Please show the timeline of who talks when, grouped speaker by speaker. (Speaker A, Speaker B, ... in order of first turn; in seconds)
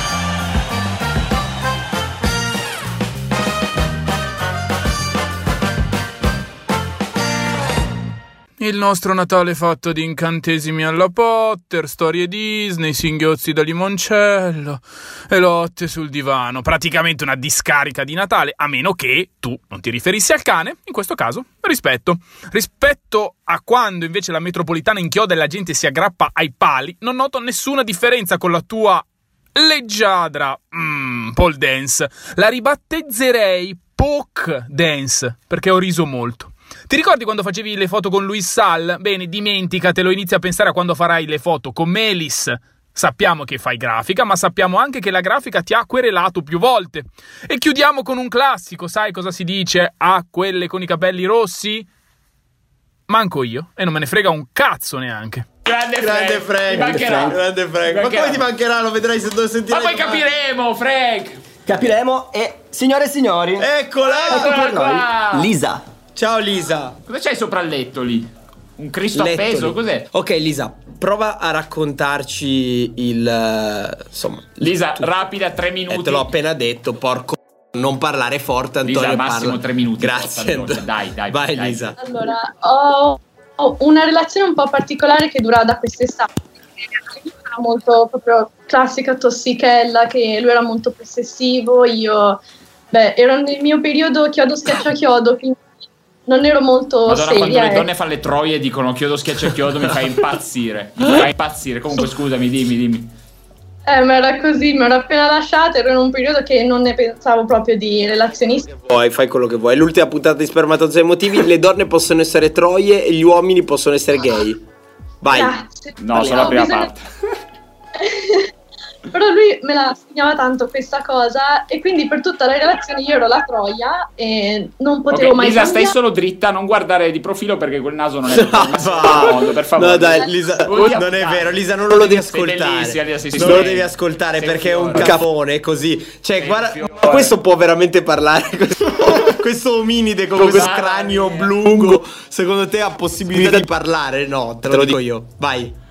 Speaker A: 8.6-51.9, 53.1-55.5
Speaker B: 55.6-58.5, 59.7-61.4, 64.0-65.5, 67.1-70.1, 74.6-76.3, 78.8-81.9, 97.0-103.1, 116.0-117.0, 125.1-135.2, 136.4-137.3, 140.4-141.7
Speaker C: 56.0-60.2, 63.6-64.6, 66.2-67.0, 69.1-75.1, 75.9-82.0, 108.8-114.6, 115.2-115.6, 116.1-116.6, 128.3-145.7
Speaker D: 56.7-57.4, 61.7-63.7, 64.3-65.9
Speaker E: 82.0-86.3, 87.2-92.4, 92.9-95.6, 96.3-97.9, 103.9-108.7, 115.3-116.9, 118.0-118.5, 119.1-126.0